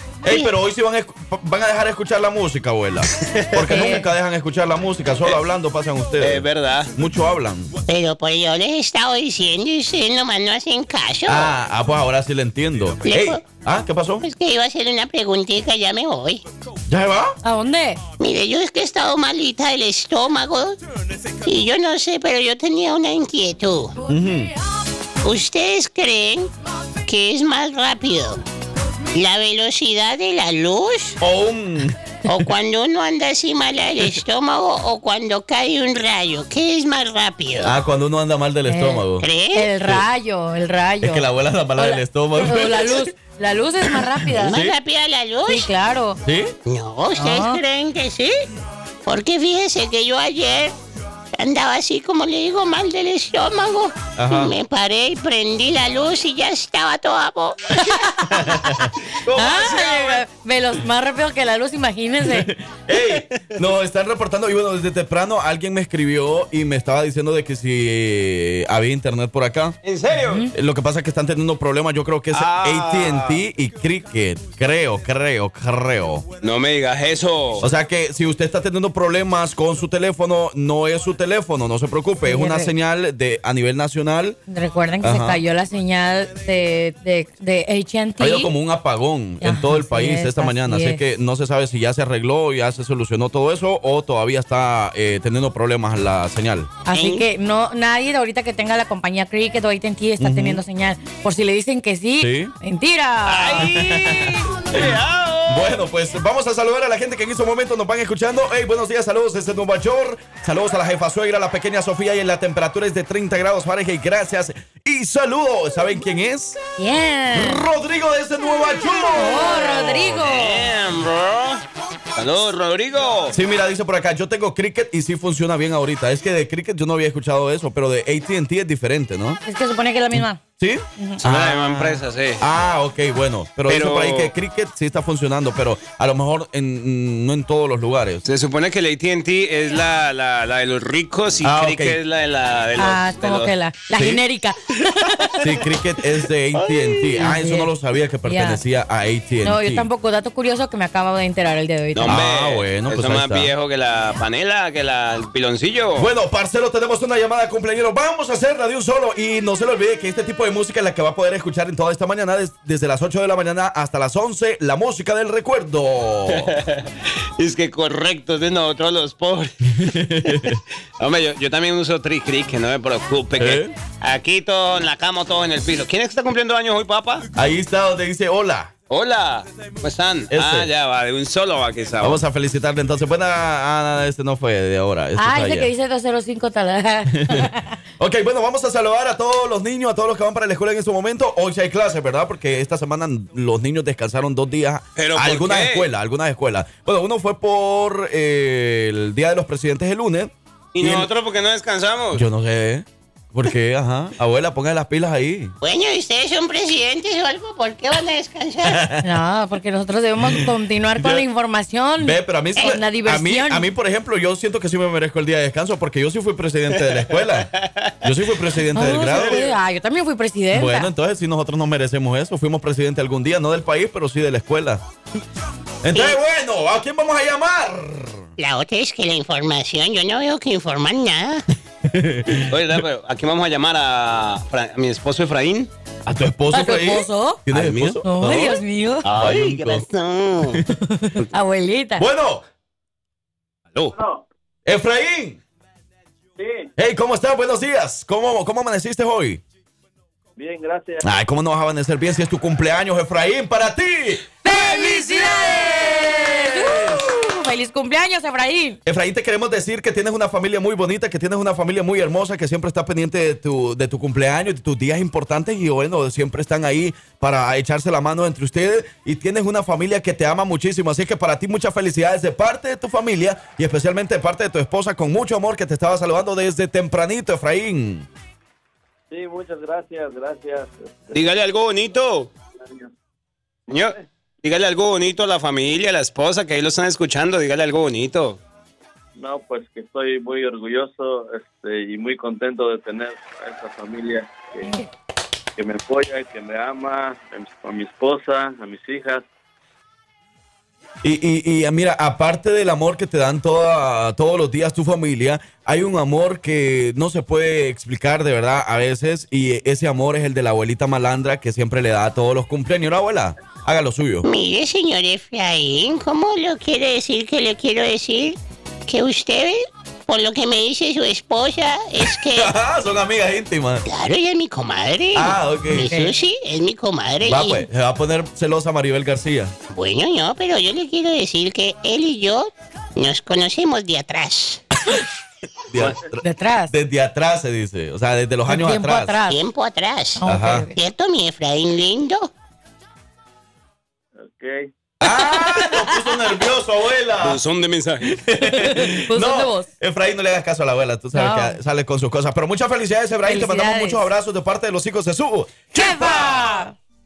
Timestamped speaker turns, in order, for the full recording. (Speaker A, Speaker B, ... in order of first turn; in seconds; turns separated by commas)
Speaker A: 0.2-7.7, Speaker B: 3.2-3.5, Speaker C: 3.6-4.1, Speaker B: 6.2-6.9, Speaker D: 7.9-11.5, Speaker A: 11.3-14.2, Speaker D: 13.0-13.4, Speaker D: 14.2-16.4, Speaker A: 16.9-17.4, Speaker C: 17.4-18.0, Speaker D: 18.2-20.8, Speaker D: 21.4-23.9, Speaker A: 24.1-24.5, Speaker D: 25.2-26.5, Speaker D: 27.1-28.4, Speaker D: 29.1-31.2, Speaker A: 31.2-32.0, Speaker D: 32.2-37.7, Speaker A: 37.6-39.2, Speaker C: 38.7-39.0, Speaker D: 39.2-39.7, Speaker C: 39.5-41.2, Speaker A: 41.0-43.1, Speaker C: 41.8-44.5, Speaker A: 44.0-44.8, Speaker D: 44.4-45.7, Speaker C: 45.5-46.2, Speaker A: 46.2-46.5, Speaker D: 46.7-48.4, Speaker C: 47.1-47.6, Speaker D: 49.1-50.7, Speaker D: 51.4-57.6, Speaker A: 54.1-54.5, Speaker C: 57.8-62.5, Speaker A: 58.3-60.1, Speaker B: 59.6-60.0, Speaker A: 62.2-69.8, Speaker B: 63.0-63.5, Speaker B: 69.8-70.5, Speaker A: 70.5-76.2, Speaker B: 72.3-73.4, Speaker B: 76.4-77.7, Speaker A: 77.6-84.4, Speaker C: 82.2-82.7, Speaker C: 84.5-88.5, Speaker A: 85.0-85.4, Speaker A: 88.2-96.7, Speaker C: 89.4-91.0, Speaker C: 96.8-103.7, Speaker D: 96.9-97.3, Speaker A: 100.2-100.6, Speaker A: 102.2-102.5, Speaker B: 103.2-105.8, Speaker A: 103.6-105.0, Speaker A: 105.5-116.6, Speaker C: 116.8-117.6, Speaker A: 117.3-120.2, Speaker C: 119.2-120.7, Speaker B: 120.1-121.6, Speaker B: 122.2-123.3, Speaker A: 123.3-129.4, Speaker C: 129.4-130.4, Speaker A: 130.1-138.2, Speaker B: 131.2-132.4, Speaker B: 133.7-134.3, Speaker B: 138.2-143.5, Speaker A: 141.4-142.0, Speaker C: 142.8-145.4, Speaker A: 143.9-144.2, Speaker A: 145.4-149.9, Speaker B: 146.6-146.9, Speaker C: 147.1-147.7, Speaker C: 148.2-148.6, Speaker C: 149.4-152.2, Speaker B: 151.9-156.1, Speaker A: 152.1-153.5, Speaker A: 155.9-166.5, Speaker B: 166.3-177.2, Speaker A: 169.8-170.6, Speaker A: 173.4-173.7, Speaker A: 177.3-178.7, Speaker B: 178.9-182.2, Speaker A: 180.3-180.7, Speaker A: 182.0-185.7, Speaker C: 185.2-187.7, Speaker A: 187.1-201.1, Speaker B: 195.0-195.9, Speaker B: 200.7-202.2, Speaker A: 202.1-205.5, Speaker D: 205.6-208.8, Speaker A: 208.6-209.1, Speaker C: 209.0-213.7, Speaker A: 210.2-211.2, Speaker A: 212.0-217.5, Speaker B: 217.6-217.9, Speaker A: 218.0-219.4, Speaker C: 218.7-220.9, Speaker B: 219.1-219.3, Speaker A: 220.5-224.8, Speaker A: 225.8-228.3, Speaker D: 228.4-231.4, Speaker A: 231.8-232.6, Speaker B: 232.5-235.7, Speaker A: 236.1-239.9, Speaker C: 236.5-237.4, Speaker B: 237.5-238.0, Speaker C: 238.0-239.1, Speaker B: 239.0-239.4, Speaker D: 239.2-240.6, Speaker C: 240.9-242.1, Speaker A: 242.0-242.4, Speaker E: 243.9-244.2, Speaker A: 244.7-245.4, Speaker E: 246.4-246.7, Speaker A: 246.8-249.4, Speaker E: 250.4-251.0, Speaker A: 251.0-257.0, Speaker C: 254.4-258.8, Speaker A: 258.9-278.1, Speaker E: 279.1-281.2, Speaker B: 281.1-282.3, Speaker E: 282.6-282.9, Speaker B: 283.7-288.4, Speaker E: 283.7-284.0, Speaker E: 289.1-294.8, Speaker E: 295.6-299.3, Speaker A: 301.0-314.3, Speaker D: 314.2-322.5, Speaker A: 322.3-323.9, Speaker D: 323.9-327.6, Speaker A: 325.1-325.9, Speaker C: 325.9-326.1, Speaker A: 327.2-329.5, Speaker D: 329.7-334.6, Speaker A: 335.7-339.2, Speaker C: 336.2-336.7, Speaker C: 338.5-339.4, Speaker D: 339.3-342.3, Speaker C: 340.2-340.8, Speaker A: 340.2-340.7, Speaker E: 344.2-344.7, Speaker A: 345.0-347.4, Speaker C: 345.0-346.1, Speaker B: 347.2-348.1, Speaker A: 348.1-356.6, Speaker C: 348.4-349.7, Speaker C: 351.1-351.6, Speaker C: 353.2-354.1, Speaker C: 355.7-356.7